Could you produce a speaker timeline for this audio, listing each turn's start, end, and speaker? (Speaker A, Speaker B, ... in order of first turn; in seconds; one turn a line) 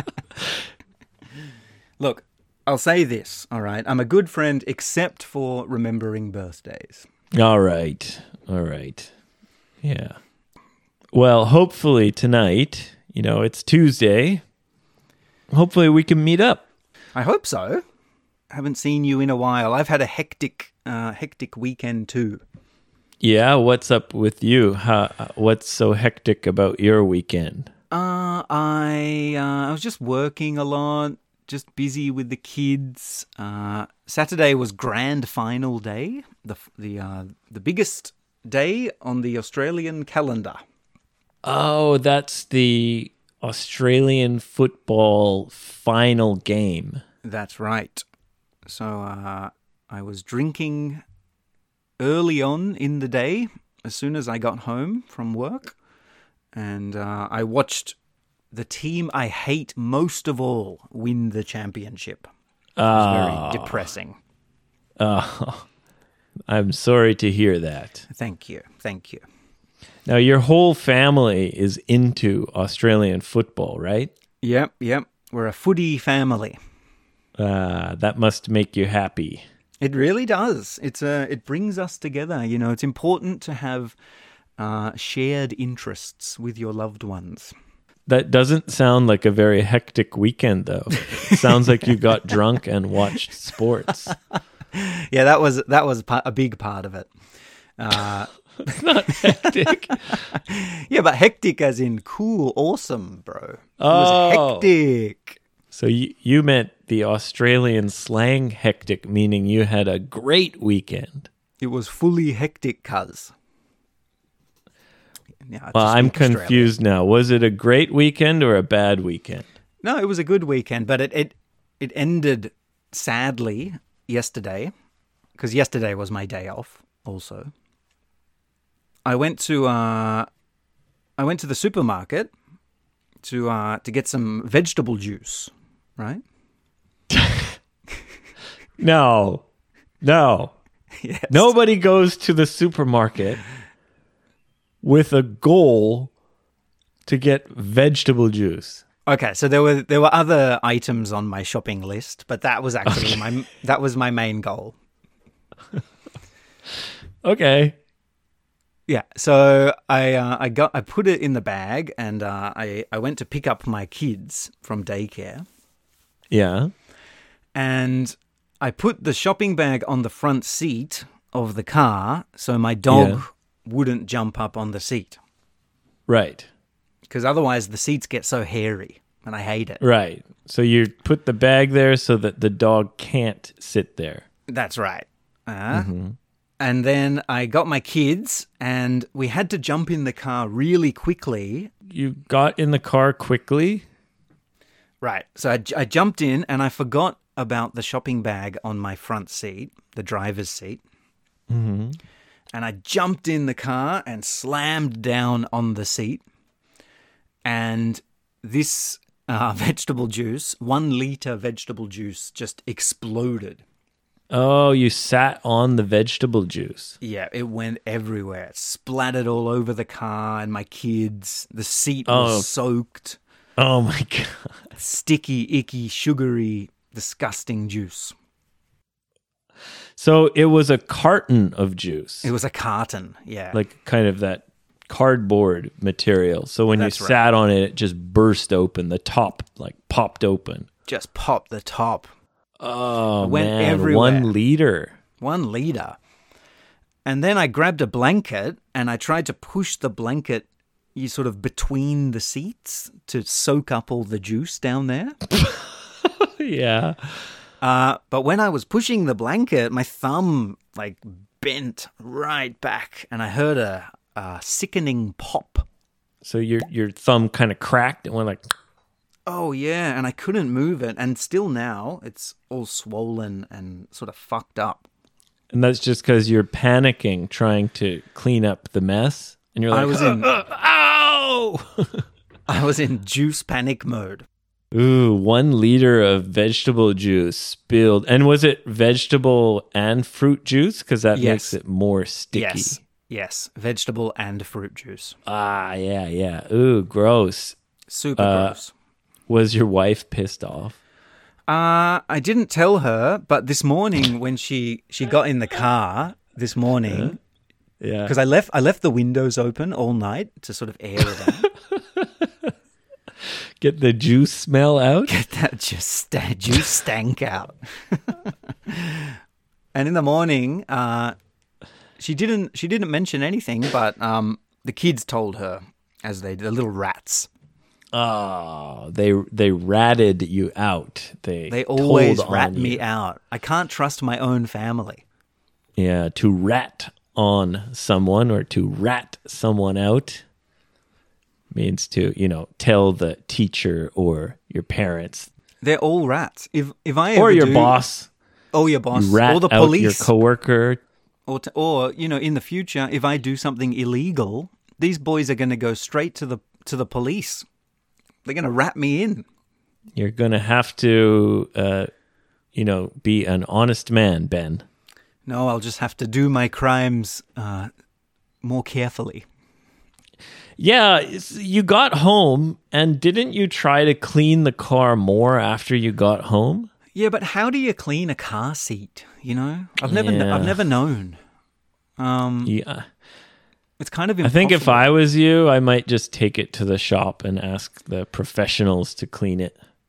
Speaker A: 2.0-7.0
Speaker B: 7.3-9.1
Speaker B: 9.8-10.2
Speaker B: 11.1-14.4
Speaker B: 15.5-16.6
Speaker A: 17.1-17.8
Speaker A: 18.5-22.4
Speaker B: 23.2-27.7
Speaker A: 27.9-40.6
Speaker B: 41.4-47.0
Speaker A: 47.2-48.0
Speaker A: 48.6-51.0
Speaker A: 52.0-55.7
Speaker A: 56.5-58.0
Speaker A: 58.5-62.3
Speaker B: 62.8-63.9
Speaker A: 62.9-64.2
Speaker B: 65.0-65.7
Speaker B: 66.5-68.0
Speaker A: 68.1-69.2
Speaker B: 70.0-74.1
Speaker A: 74.4-76.6
Speaker B: 77.4-79.4
Speaker A: 79.8-84.0
Speaker A: 84.6-87.5
Speaker B: 88.1-94.1
Speaker A: 91.2-91.5
Speaker A: 94.7-97.1
Speaker A: 97.8-98.3
Speaker B: 98.6-100.3
Speaker A: 99.1-105.4
Speaker B: 103.8-104.7
Speaker B: 105.7-111.3
Speaker A: 111.6-113.3
Speaker A: 115.5-116.7
Speaker B: 115.7-119.5
Speaker A: 119.8-124.7
Speaker A: 125.4-127.5
Speaker A: 129.0-130.3
Speaker A: 131.2-132.3
Speaker A: 133.2-136.2
Speaker B: 137.1-137.5
Speaker B: 138.8-139.4
Speaker B: 140.0-140.5
Speaker A: 141.0-141.5
Speaker B: 141.3-143.4
Speaker B: 144.8-146.1
Speaker B: 147.1-148.8
Speaker A: 149.1-154.7
Speaker B: 152.8-153.2
Speaker B: 157.2-157.8
Speaker A: 158.9-165.4
Speaker B: 166.3-166.7
Speaker A: 167.5-175.2
Speaker B: 172.9-173.2
Speaker B: 176.1-176.5
Speaker A: 177.1-179.8
Speaker B: 179.8-184.2
Speaker A: 184.5-185.9
Speaker B: 185.7-186.2
Speaker A: 186.6-191.7
Speaker B: 191.9-193.8
Speaker A: 195.0-200.8
Speaker B: 201.5-202.0
Speaker A: 202.5-206.2
Speaker A: 207.4-213.6
Speaker B: 214.3-217.0
Speaker A: 217.0-223.2
Speaker B: 222.1-222.5
Speaker B: 223.6-224.5
Speaker A: 224.8-228.1
Speaker B: 229.9-232.3
Speaker A: 232.2-233.6
Speaker B: 233.5-240.7
Speaker A: 236.7-237.2
Speaker A: 240.9-242.1
Speaker B: 242.6-244.9
Speaker A: 243.2-244.3
Speaker A: 245.2-246.0
Speaker A: 247.0-255.2
Speaker B: 255.3-257.3
Speaker A: 257.6-265.6
Speaker B: 266.2-268.4
Speaker A: 269.3-274.8
Speaker B: 275.5-282.0
Speaker A: 279.7-280.3
Speaker A: 282.5-284.2
Speaker B: 284.7-292.8
Speaker A: 291.1-291.6
Speaker A: 292.3-295.1
Speaker B: 295.2-297.6
Speaker A: 297.9-298.7
Speaker B: 298.2-298.6
Speaker B: 299.3-300.8
Speaker A: 301.5-307.2
Speaker B: 306.9-307.1
Speaker B: 307.8-308.1
Speaker A: 308.0-311.5
Speaker B: 311.2-312.5
Speaker B: 313.2-315.1
Speaker A: 315.1-319.2
Speaker A: 319.7-321.1
Speaker A: 322.0-327.3
Speaker B: 327.9-332.8
Speaker A: 331.5-335.0
Speaker B: 335.8-340.2
Speaker B: 341.5-345.3
Speaker A: 345.6-347.8
Speaker B: 347.1-348.1
Speaker A: 348.5-350.1
Speaker B: 348.9-350.8
Speaker A: 351.3-357.4
Speaker A: 358.2-359.2
Speaker B: 359.9-361.9
Speaker B: 362.5-364.6
Speaker A: 365.2-367.7
Speaker A: 368.4-369.2
Speaker B: 370.6-376.7
Speaker A: 376.9-381.2
Speaker B: 379.8-380.6
Speaker A: 382.0-382.5
Speaker B: 382.4-382.9
Speaker A: 383.8-384.9
Speaker B: 384.2-389.6